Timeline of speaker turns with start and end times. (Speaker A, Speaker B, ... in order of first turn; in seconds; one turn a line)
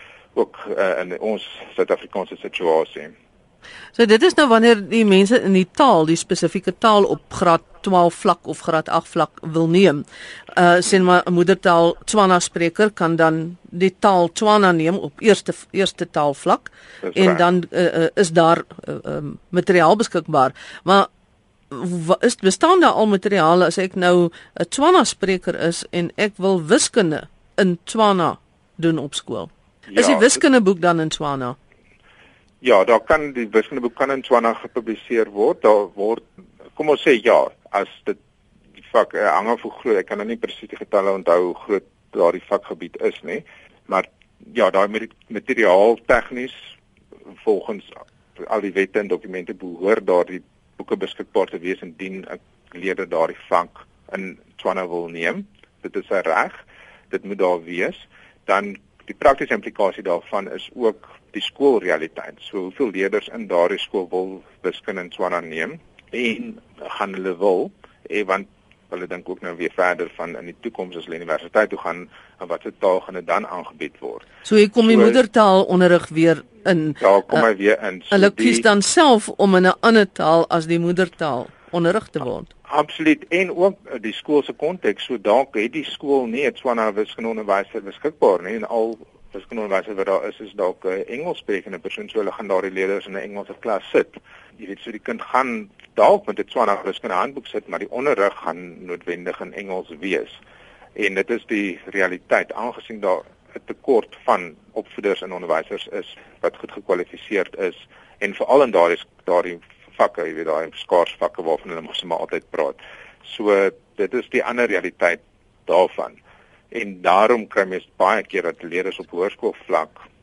Speaker A: 0.3-3.1
Speaker B: 3.9-21.1
Speaker A: 17.0-17.4
Speaker B: 21.7-31.6
Speaker A: 29.9-30.4
Speaker A: 32.6-36.2
Speaker A: 36.8-38.2
Speaker A: 38.9-46.6
Speaker A: 47.4-74.3
Speaker B: 74.4-77.4
Speaker A: 74.8-75.2
Speaker A: 77.0-78.6
Speaker B: 78.1-82.5
Speaker A: 82.7-100.4
Speaker A: 101.0-116.2
Speaker A: 116.7-120.0